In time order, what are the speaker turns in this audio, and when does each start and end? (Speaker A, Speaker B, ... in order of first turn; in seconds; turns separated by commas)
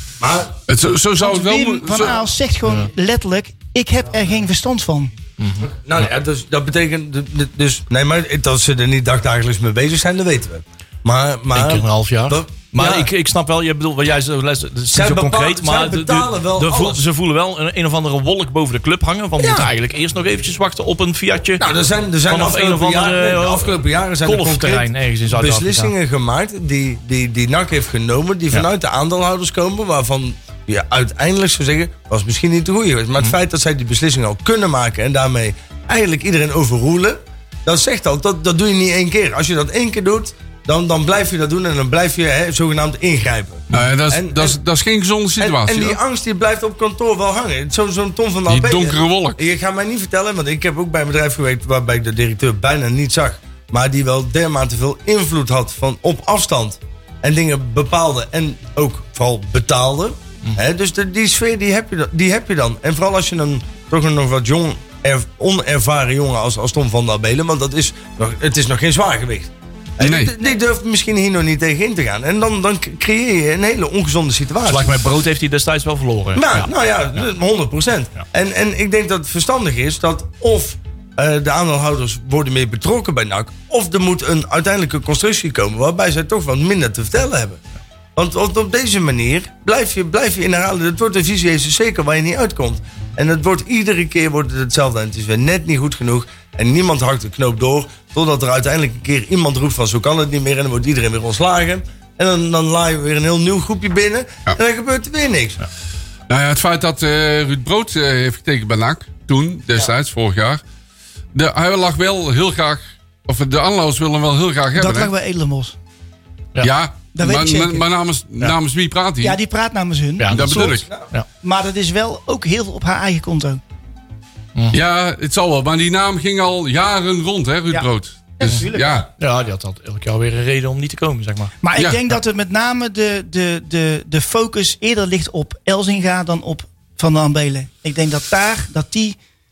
Speaker A: 0.2-0.5, Speaker B: 0.7-2.2, Speaker C: 1.2-5.1, Speaker D: 5.4-5.7, Speaker A: 5.6-13.1, Speaker D: 11.5-21.6, Speaker A: 14.9-17.0, Speaker A: 19.4-19.7, Speaker A: 21.6-44.6, Speaker D: 22.3-25.9, Speaker B: 43.7-46.0, Speaker A: 45.4-74.9, Speaker B: 48.5-49.4, Speaker B: 70.0-70.3, Speaker D: 74.7-76.7, Speaker A: 76.3-87.6, Speaker A: 88.1-105.6, Speaker B: 106.3-110.6, Speaker B: 111.3-115.1, Speaker C: 114.8-115.7, Speaker B: 116.6-119.4, Speaker C: 117.1-117.8, Speaker C: 119.2-120.7, Speaker D: 120.2-121.2, Speaker B: 120.3-120.9, Speaker C: 121.4-123.6, Speaker B: 124.7-129.1, Speaker C: 128.4-129.0, Speaker A: 128.8-129.1, Speaker D: 129.2-131.5, Speaker C: 131.6-139.2, Speaker B: 131.8-132.0